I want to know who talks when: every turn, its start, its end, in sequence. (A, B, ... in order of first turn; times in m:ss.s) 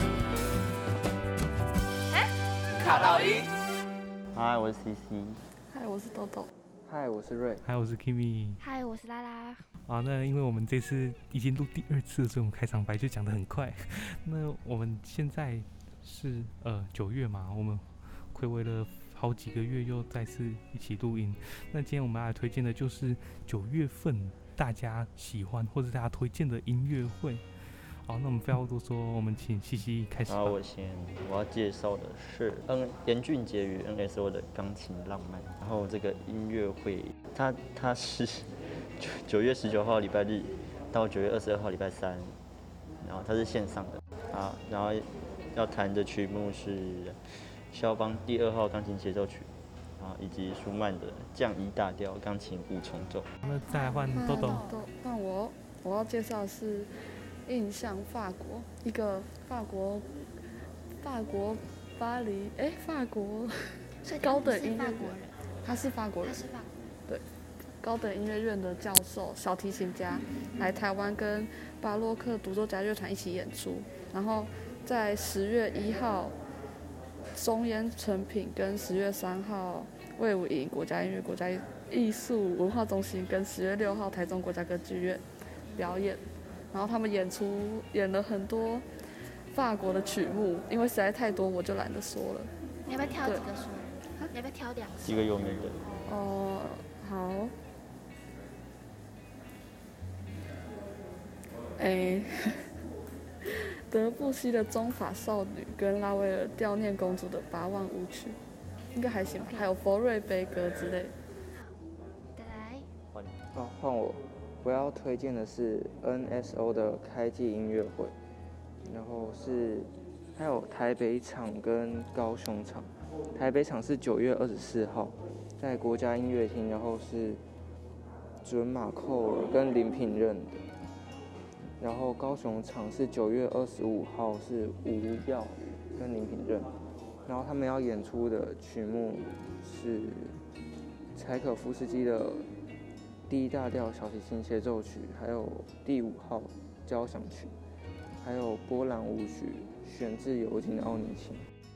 0:02.9-0:03.3 A
0:04.3-0:05.4 B
0:05.7-0:06.5 C
0:06.8-0:07.6 D
0:07.6-0:08.6 E
0:08.6-0:09.7 A
0:09.8-0:27.4 E
0:28.1-0:30.6 E
0:30.3-0:42.3 B
0:43.0-0:47.2 B
0:47.7-0:49.5 B
0:50.0-0:53.3 B
0:53.4-0:54.8 A
0:53.4-0:54.7 E
0:54.1-0:56.9 C
0:57.5-1:00.1 C
1:01.0-1:03.5 C
1:04.0-1:05.4 A
1:04.1-1:06.4 C
1:06.2-1:06.7 A
1:07.8-1:16.4 C
1:17.4-1:25.2 C
1:25.7-1:26.1 A
1:25.8-1:28.8 C
1:29.5-1:32.5 C
1:32.9-1:35.4 A
1:35.0-1:35.8 B
1:36.0-1:37.5 C
1:41.8-1:42.6 C
1:43.9-1:48.4 C
1:48.9-1:51.1 C
1:49.4-1:49.7 A
1:52.4-1:52.9 A
1:53.5-1:58.2 D
1:58.8-2:07.4 D
2:08.4-2:10.6 D
2:11.8-2:16.7 D
2:17.3-2:20.4 D
2:21.2-2:22.5 D
2:23.3-2:27.5 D
2:28.2-2:31.4 D